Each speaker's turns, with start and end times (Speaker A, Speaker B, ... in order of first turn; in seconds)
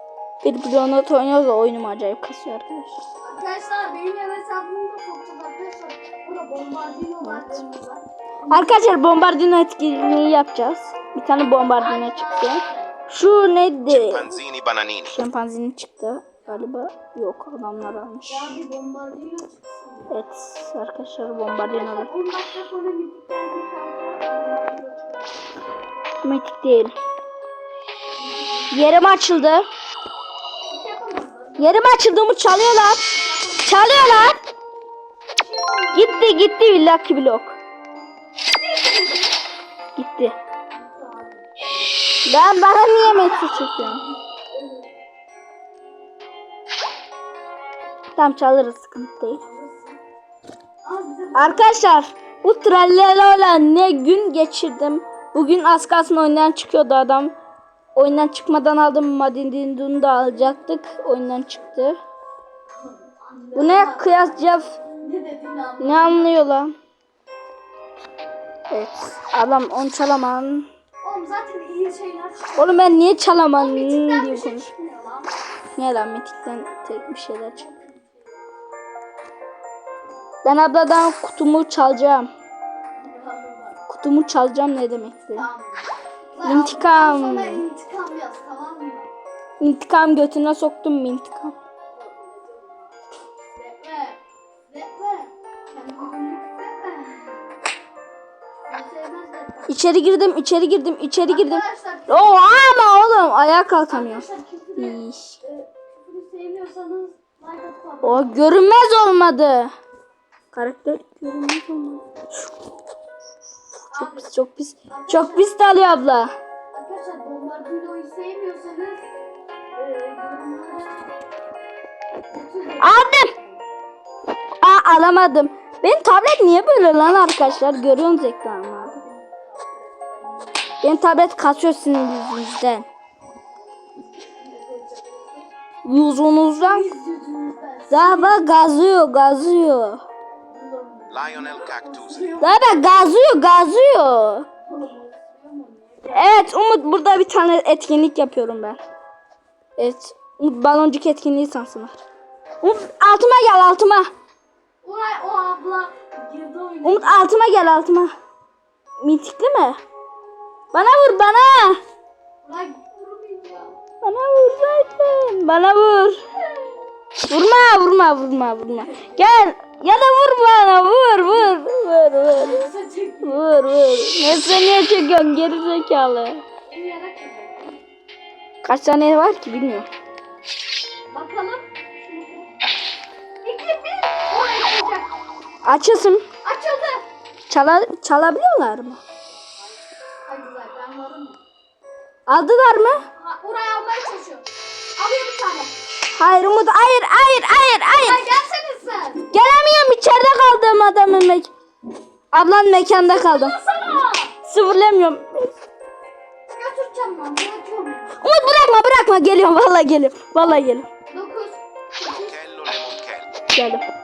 Speaker A: 0.4-3.0, 7.2-7.6, 8.5-14.3, 15.1-18.6, 20.1-22.1, 26.2-26.9, 28.7-29.6, 31.6-33.0, 33.6-34.4, 35.9-37.6, 40.0-40.3, 42.2-44.0, 48.1-49.4, 51.3-57.3, 57.9-62.0, 63.5-64.8, 65.8-66.8, 68.7-70.7, 72.5-74.7, 75.8-77.6, 80.4-82.3, 83.9-85.5, 86.4-87.6, 89.6-91.5, 99.7-105.4, 108.0-109.7, 110.5-112.2, 113.9-116.3, 122.8-123.3, 124.6-129.0, 130.8-132.9, 135.8-136.9, 137.9-140.0, 142.4-144.5, 146.1-148.8, 149.8-152.0, 152.6-154.1, 156.8-158.1, 159.0-159.8, 160.7-161.8, 164.0-166.2, 167.3-172.7, 173.2-176.4, 178.6-179.9, 185.6-186.2, 187.5-189.0, 192.3-193.0, 196.1-198.2, 199.3-201.5, 202.3-203.6, 204.4-205.6, 208.2-210.9, 213.5-213.8
Speaker B: 3.2-8.8, 11.7-12.9, 18.3-20.1, 21.7-25.4, 28.2-29.0, 30.7-31.8, 32.8-34.2, 35.3-36.5, 38.5-39.4, 40.7-42.2, 43.0-44.9, 49.4-50.0, 50.8-51.8, 62.8-66.4, 71.0-75.3, 77.6-78.2, 83.0-83.8, 85.3-89.1, 91.9-92.9, 93.5-97.4, 98.7-99.7, 101.3-102.4, 103.8-108.4, 113.9-114.3, 114.9-115.5, 116.7-119.1, 119.8-121.1, 122.3-123.6, 128.9-130.7, 133.9-135.5, 136.6-138.4, 140.5-143.1, 144.6-146.5, 154.8-157.3, 162.4-163.7, 172.3-173.5, 176.7-177.8, 181.1-182.5, 183.4-185.1, 186.4-187.0, 190.3-191.4, 193.1-194.4, 195.0-195.7, 198.0-199.3, 203.0-204.3, 206.5-208.2, 211.1-212.3
Speaker C: 13.9-15.2, 141.1-142.4, 212.1-213.3